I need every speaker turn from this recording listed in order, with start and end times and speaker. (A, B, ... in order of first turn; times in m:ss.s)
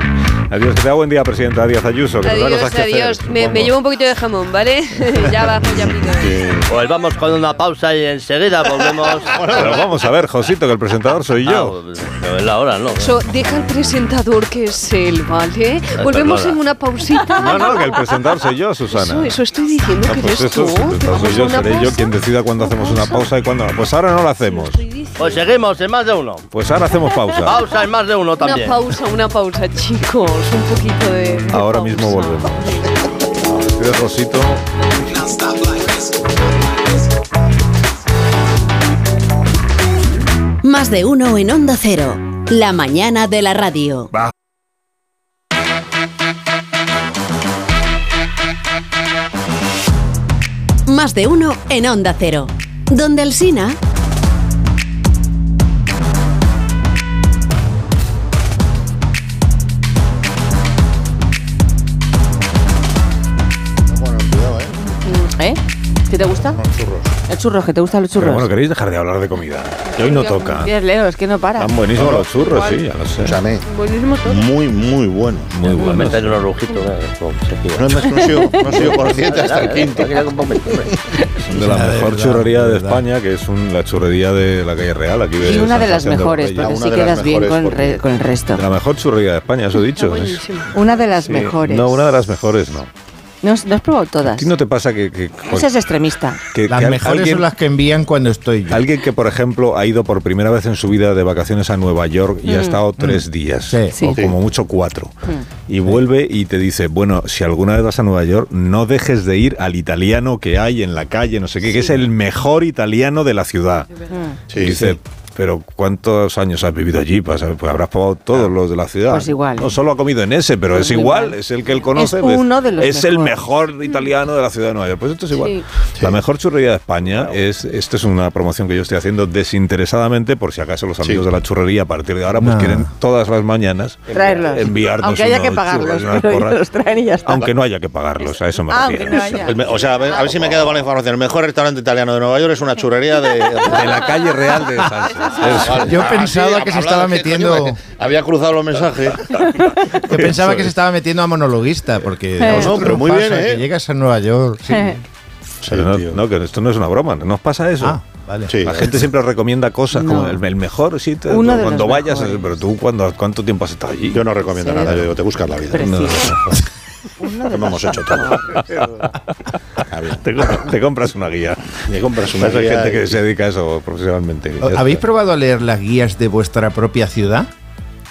0:00.5-0:03.7 A
0:02.2-0:06.4 B
0:06.2-0:06.7 C
0:06.7-0:09.6 D
0:09.2-0:09.9 C
0:09.4-0:11.8 A
0:11.4-0:13.1 D
0:13.0-0:18.0 B
0:16.0-0:16.6 D
0:17.3-0:19.4 A
0:18.9-0:22.1 B
0:20.0-0:24.8 A
0:22.6-0:23.2 B
0:24.4-0:25.4 B
0:25.2-0:26.5 D
0:26.5-0:27.6 A
0:27.4-0:28.8 D
0:28.4-0:32.8 B
0:31.5-0:32.9 A
0:33.5-0:34.6 A
0:40.6-0:44.1 E
0:50.9-0:53.8 E
1:03.8-1:04.8 C
1:05.1-1:06.6 F
1:06.6-1:07.1 C
1:07.3-1:08.5 F
1:08.2-1:10.7 A
1:10.0-1:11.8 F
1:11.6-1:13.4 A
1:11.9-1:12.3 C
1:12.4-1:12.8 B
1:13.2-1:13.6 C
1:13.7-1:14.4 B
1:14.2-1:15.5 C
1:15.5-1:16.4 A
1:15.7-1:21.0 D
1:17.8-1:20.4 C
1:18.2-1:18.8 F
1:21.5-1:26.8 A
1:21.5-1:23.0 G
1:25.4-1:28.6 F
1:26.6-1:28.0 C
1:28.5-1:30.5 A
1:30.0-1:30.7 B
1:30.7-1:32.0 F
1:31.2-1:32.9 A
1:33.4-1:34.5 F
1:34.2-1:35.8 A
1:35.5-1:36.4 F
1:36.5-1:37.5 A
1:36.7-1:38.9 G
1:38.7-1:45.2 A
1:42.4-1:42.8 F
1:43.0-1:44.0 G
1:43.9-1:44.3 F
1:45.7-2:16.6 A
1:54.1-1:54.4 F
1:54.5-1:55.0 C
1:59.1-1:59.8 F
2:00.7-2:01.4 F
2:01.9-2:03.5 F
2:12.4-2:12.9 G
2:14.1-2:17.5 F
2:17.2-2:19.5 A
2:18.7-2:19.8 F
2:19.4-2:24.1 C
2:23.7-2:25.9 A
2:25.4-2:29.4 C
2:25.8-2:27.8 G
2:30.1-2:34.8 G
2:30.1-2:30.6 A
2:32.4-2:33.0 F
2:32.5-2:33.7 C
2:34.7-2:35.0 F
2:35.6-2:36.2 C
2:35.7-2:38.0 A
2:37.8-2:38.5 G
2:38.5-2:39.1 C
2:38.6-2:44.2 A
2:39.9-2:40.4 F
2:41.3-2:42.6 F
2:44.1-2:46.1 C
2:44.4-2:45.1 F
2:45.7-2:46.4 F
2:45.8-2:46.6 A
2:47.2-2:48.5 F
2:47.5-2:48.4 C
2:49.9-2:50.2 C
2:50.2-2:51.8 A
2:51.8-2:53.2 C
2:52.4-2:55.0 A
2:54.6-2:57.5 G